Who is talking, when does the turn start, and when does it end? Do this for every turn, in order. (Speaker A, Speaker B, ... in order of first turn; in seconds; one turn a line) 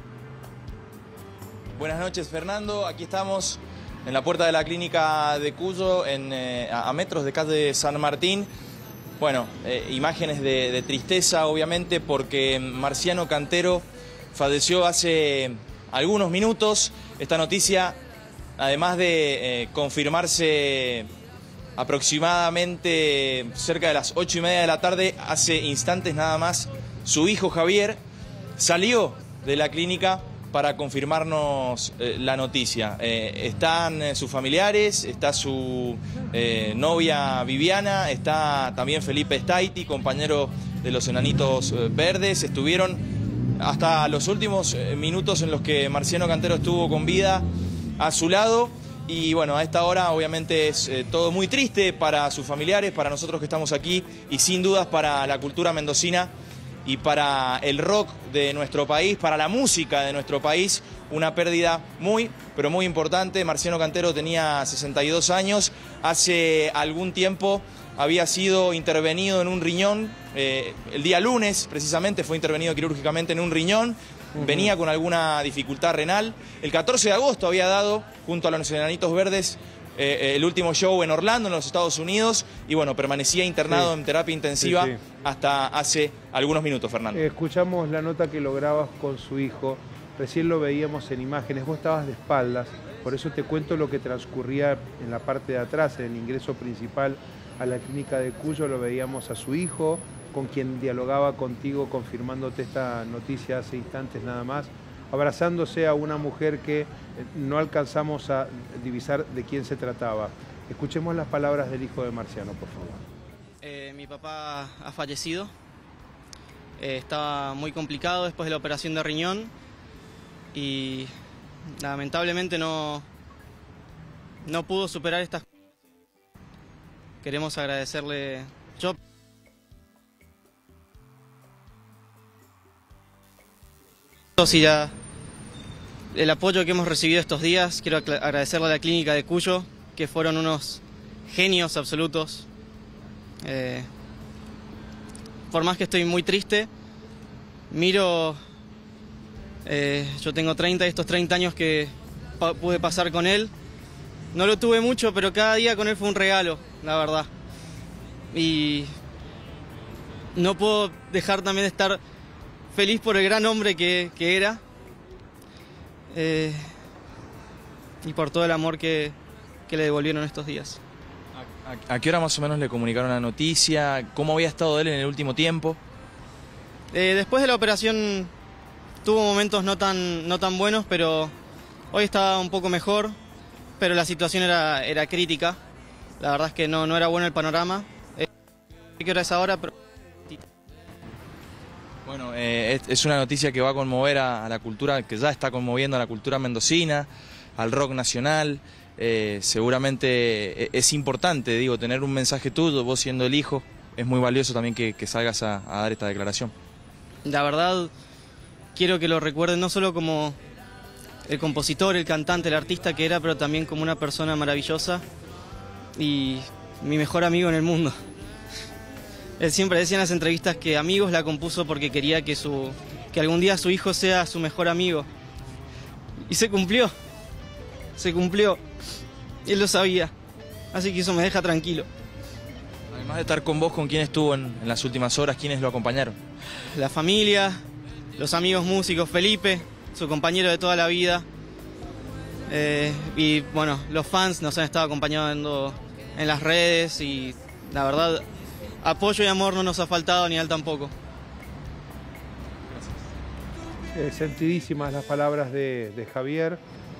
Speaker A: 1.8-8.5
Speaker A: 9.2-18.0
Speaker A: 18.6-21.1
Speaker A: 21.8-28.0
Speaker A: 28.6-43.0
Speaker A: 43.6-47.5
Speaker A: 48.0-56.3
Speaker A: 56.9-87.2
Speaker B: 74.4-74.7
Speaker B: 84.6-85.0
Speaker B: 87.1-113.0
Speaker C: 113.6-115.5
Speaker C: 116.8-119.5
Speaker C: 120.5-121.1
Speaker C: 121.8-123.1
Speaker C: 124.4-125.5
Speaker C: 127.2-129.0
Speaker C: 134.4-134.9
Speaker C: 136.1-142.5
Speaker C: 143.4-143.9
Speaker C: 145.5-146.7
Speaker C: 147.7-148.4
Speaker C: 149.7-153.5
Speaker C: 154.3-157.3
Speaker C: 158.3-158.9
Speaker C: 160.3-162.0
Speaker C: 162.7-164.6
Speaker C: 166.1-166.7
Speaker C: 168.0-169.2
Speaker C: 169.7-170.8
Speaker A: 171.3-175.8
Speaker C: 176.9-178.3
Speaker C: 179.0-181.3
Speaker C: 181.9-183.2
Speaker C: 183.8-185.6
Speaker C: 186.2-188.3
Speaker C: 189.0-189.7
Speaker A: 192.1-206.5
Speaker C: 207.2-207.9
Speaker C: 208.8-210.4
Speaker C: 211.3-215.1
Speaker C: 216.0-218.0
Speaker C: 219.4-225.1
Speaker C: 226.3-226.9
Speaker C: 228.0-228.6
Speaker C: 229.4-230.1
Speaker C: 230.7-231.9
Speaker A: 232.9-236.2
Speaker C: 236.7-237.6
Speaker C: 238.2-241.3
Speaker C: 242.5-248.3
Speaker C: 248.8-250.9
Speaker B: 253.9-256.6